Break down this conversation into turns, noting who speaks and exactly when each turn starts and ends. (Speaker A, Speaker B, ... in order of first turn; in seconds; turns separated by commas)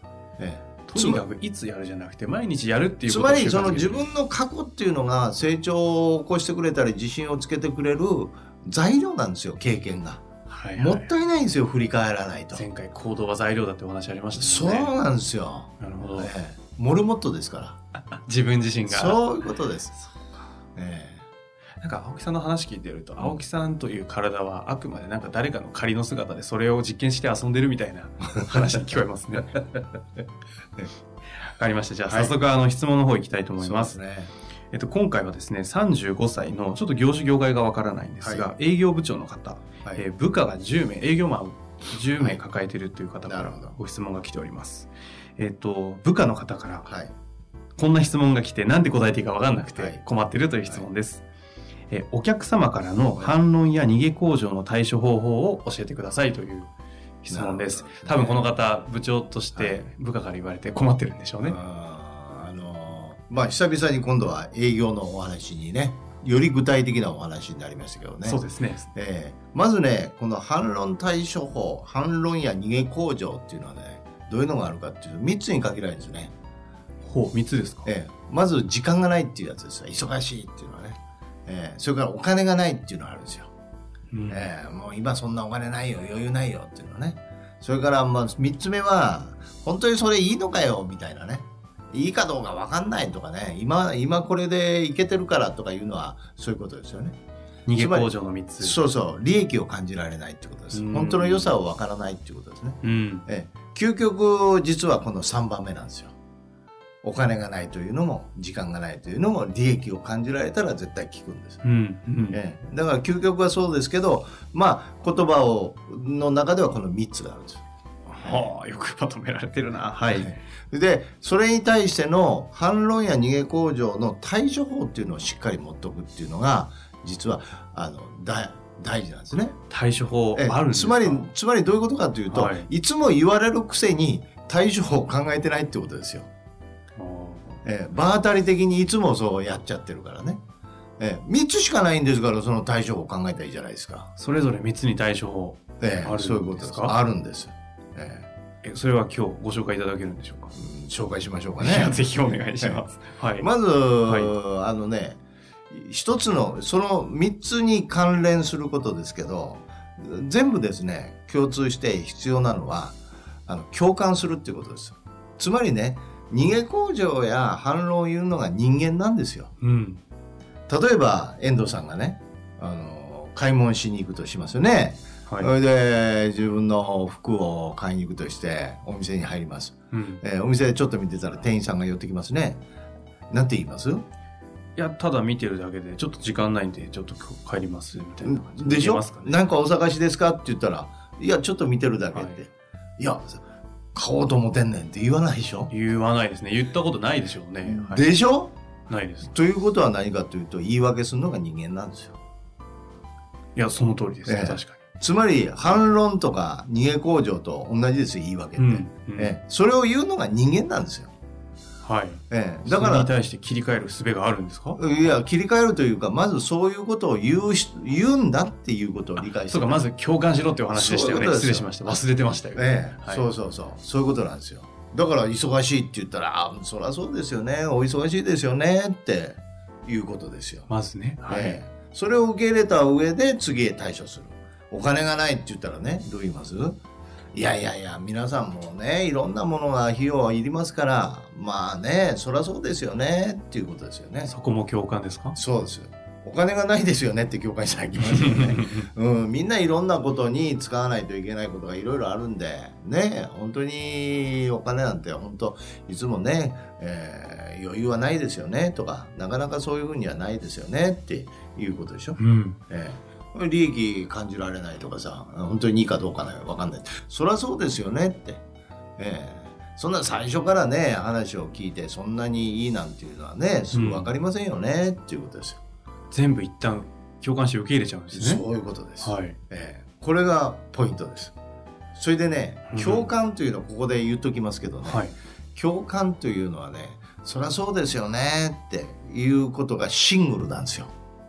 Speaker A: 0.4-1.2, Speaker B: 0.9-4.1, Speaker A: 3.0-10.2, Speaker B: 10.5-11.1, Speaker A: 10.8-12.6, Speaker B: 12.5-15.0, Speaker A: 14.3-17.8, Speaker B: 15.8-16.3, Speaker B: 17.9-19.2, Speaker A: 18.9-20.0, Speaker A: 20.8-21.2, Speaker B: 21.8-29.8, Speaker B: 31.4-34.0, Speaker A: 32.1-32.4, Speaker A: 33.6-34.3, Speaker B: 34.7-46.9, Speaker A: 38.2-38.5, Speaker A: 43.2-43.8, Speaker A: 46.8-47.1, Speaker B: 47.8-51.2, Speaker A: 49.7-50.0, Speaker B: 51.9-61.6, Speaker A: 57.3-58.5, Speaker A: 59.5-59.8, Speaker A: 61.4-68.4, Speaker B: 68.2-68.9, Speaker A: 68.9-76.3, Speaker B: 77.0-77.9, Speaker A: 77.8-83.5, Speaker B: 84.1-84.5, Speaker A: 84.3-97.2, Speaker B: 97.7-98.8, Speaker A: 97.7-106.1, Speaker B: 100.7-101.5, Speaker B: 102.8-103.2, Speaker A: 107.0-111.6, Speaker B: 111.6-112.4, Speaker A: 112.3-117.6, Speaker B: 118.0-120.3, Speaker A: 118.2-118.5, Speaker A: 120.0-129.6, Speaker B: 129.7-131.3, Speaker A: 130.3-136.3, Speaker B: 132.3-132.7, Speaker B: 136.9-137.6, Speaker A: 137.6-140.4, Speaker A: 141.0-144.1, Speaker B: 144.2-146.9, Speaker A: 145.8-148.3, Speaker B: 148.6-150.6, Speaker A: 150.5-152.0, Speaker B: 151.6-153.5, Speaker A: 153.4-169.5, Speaker B: 154.0-154.3, Speaker B: 169.6-170.0, Speaker A: 170.7-182.6, Speaker B: 179.9-180.2, Speaker A: 183.3-184.0, Speaker B: 184.8-189.4, Speaker A: 188.2-193.4, Speaker B: 192.1-192.4, Speaker A: 193.9-195.7, Speaker B: 195.7-198.1, Speaker A: 197.6-198.5, Speaker B: 198.9-199.3, Speaker A: 199.2-202.2, Speaker B: 203.5-204.8, Speaker A: 204.2-211.1, Speaker B: 208.6-209.3, Speaker B: 211.8-215.2, Speaker A: 212.3-213.1, Speaker A: 214.8-219.9, Speaker B: 219.2-223.2, Speaker A: 220.7-222.0, Speaker A: 222.5-230.7, Speaker B: 230.7-231.6, Speaker A: 231.3-236.8, Speaker A: 237.3-244.3, Speaker B: 244.2-245.4, Speaker A: 245.3-262.2, Speaker B: 248.0-248.8, Speaker B: 262.2-262.6, Speaker A: 262.7-268.4, Speaker A: 269.0-275.6, Speaker B: 273.7-274.1, Speaker B: 276.1-278.4, Speaker A: 278.1-281.3, Speaker B: 279.0-279.4, Speaker A: 281.9-285.0, Speaker B: 282.7-283.1, Speaker B: 284.8-285.1, Speaker A: 285.5-290.9